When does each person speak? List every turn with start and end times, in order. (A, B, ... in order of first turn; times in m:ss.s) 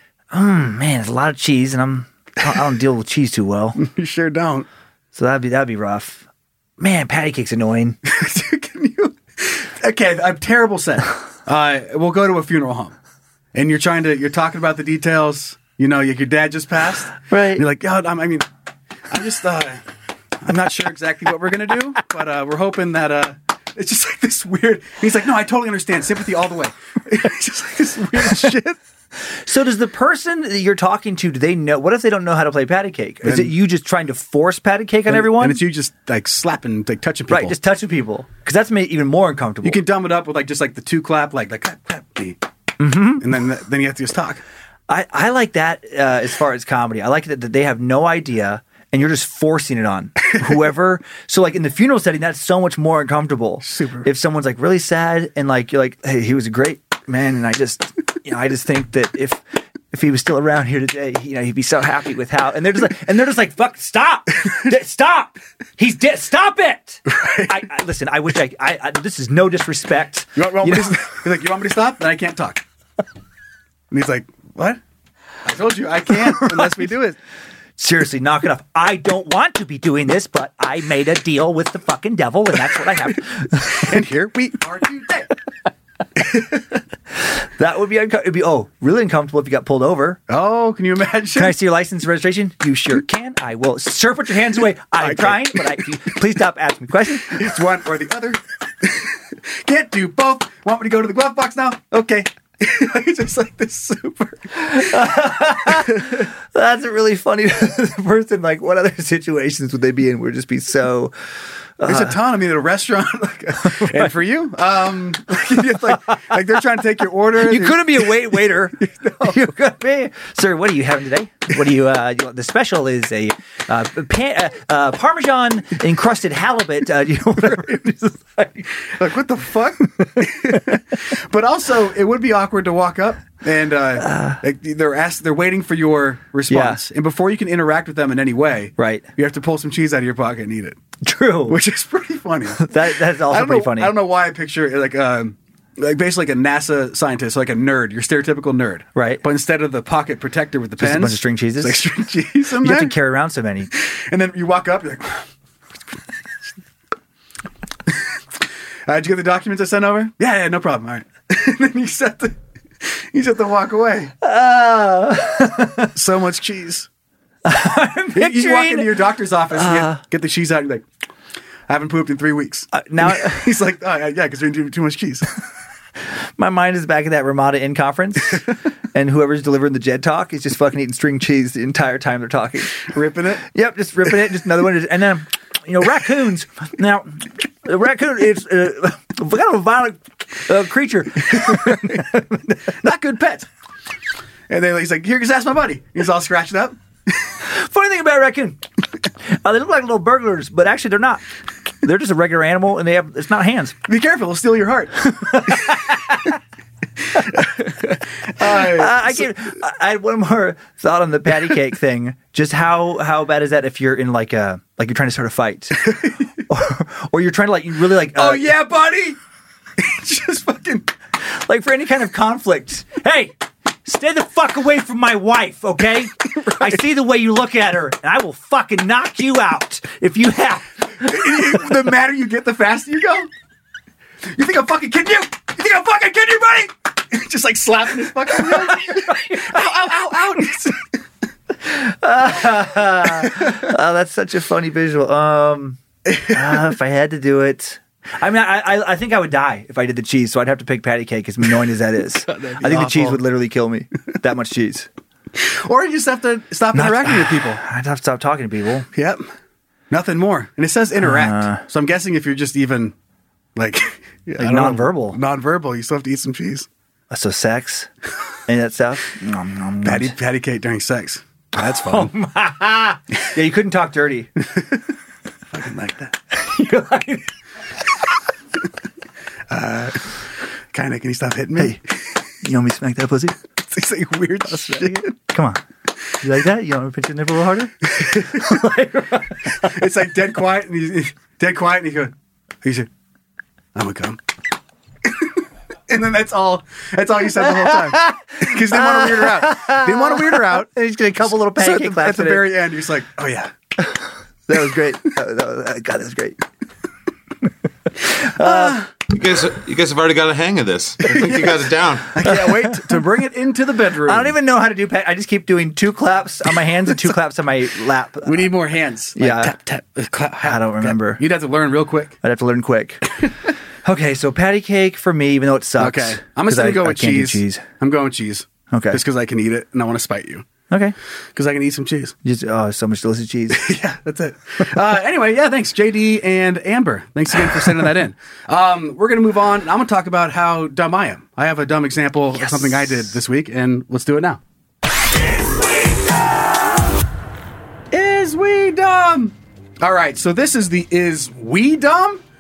0:00.3-0:03.8 A
0:03.8-0:04.7 B
0:05.1-0:06.2 A
0:06.8-0:08.0 A
0:08.0-0:13.0 B
0:13.5-0:18.5 B
0:17.3-0:17.6 A
0:19.1-0:19.8 B
0:20.4-0:28.8 B
0:29.4-0:35.6 A
0:33.2-0:33.6 B
0:35.1-0:37.6 B
0:37.3-0:39.8 A
0:39.6-0:42.4 B
0:42.8-0:43.2 A
0:43.2-0:44.4 B
0:44.9-1:11.2 A
0:53.6-0:54.1 B
1:07.0-1:07.6 B
1:10.4-1:12.6 B
1:13.9-1:14.8 B
1:15.4-1:17.2 B
1:16.3-1:16.8 A
1:17.8-1:24.0 A
1:23.6-1:25.3 B
1:26.2-1:26.6 B
1:27.3-1:30.2 A
1:30.3-1:31.6 B
1:31.3-1:37.5 A
1:35.0-1:35.8 B
1:37.2-1:46.3 B
1:44.5-1:51.1 A
1:51.8-1:52.2 A
1:51.8-1:59.4 B
1:53.6-1:54.1 A
1:55.9-1:56.4 A
1:57.4-2:08.9 A
2:08.9-2:20.8 B
2:10.0-2:10.6 A
2:14.0-2:14.4 A
2:16.5-2:16.8 A
2:18.8-2:19.0 A
2:21.0-2:21.6 A
2:21.5-2:33.0 B
2:22.6-2:23.9 A
2:28.9-2:29.2 A
2:30.8-2:31.8 A
2:32.6-2:33.7 A
2:33.7-2:35.2 B
2:38.8-2:44.1 B
2:44.2-2:45.9 A
2:45.9-2:46.9 B
2:47.4-2:50.0 A
2:48.1-2:50.8 B
2:51.7-2:55.3 B
2:52.7-2:53.5 A
2:56.4-3:02.9 A
3:02.8-3:03.4 B
3:03.5-3:13.1 A
3:11.5-3:12.0 B
3:12.8-3:13.4 B
3:14.5-3:17.1 B
3:17.4-3:18.6 A
3:19.2-3:21.2 A
3:21.8-3:23.8 A
3:23.8-3:25.6 B
3:25.2-3:26.3 A
3:27.2-3:29.3 B
3:28.4-3:38.5 A
3:35.8-3:36.2 B
3:38.1-3:39.2 B
3:39.8-3:40.9 B
3:41.4-3:51.6 A
3:46.4-3:46.7 B
3:51.0-3:53.3 B
3:54.2-4:00.9 B
3:58.3-3:59.6 A
4:01.6-4:14.9 A
4:03.2-4:03.6 B
4:06.0-4:06.7 B
4:12.3-4:13.2 B
4:15.4-4:17.6 B
4:16.7-4:18.9 A
4:18.9-4:19.2 B
4:19.9-4:22.9 B
4:21.0-4:21.6 A
4:23.6-4:26.7 B
4:24.4-4:25.2 A
4:27.1-4:27.9 A
4:28.5-4:30.1 A
4:29.8-4:32.1 B
4:31.6-4:34.3 A
4:35.5-4:36.2 B
4:36.3-4:37.3 A
4:39.5-4:40.1 B
4:40.7-4:42.0 B
4:42.4-4:43.4 A
4:43.6-4:45.1 B
4:44.5-4:45.6 A
4:46.2-4:49.8 A
4:47.9-4:48.5 B
4:49.6-4:52.9 B
4:53.7-4:54.2 B
4:55.0-5:00.7 B
4:57.4-5:02.5 A
5:01.4-5:03.5 B
5:03.8-5:06.4 A
5:08.1-5:08.8 A
5:08.4-5:08.9 B
5:09.1-5:12.2 C
5:11.0-5:14.3 B
5:12.2-5:13.0 A
5:14.0-5:18.5 A
5:18.2-5:22.2 B
5:19.2-5:19.5 A
5:20.4-5:21.2 A
5:22.2-5:23.1 A
5:23.8-5:27.6 A
5:25.8-5:30.4 B
5:28.7-5:29.0 A
5:30.7-5:30.9 A
5:31.3-5:32.2 B
5:32.2-5:33.7 A
5:33.5-5:44.4 B
5:42.3-5:42.9 A
5:47.9-5:52.2 B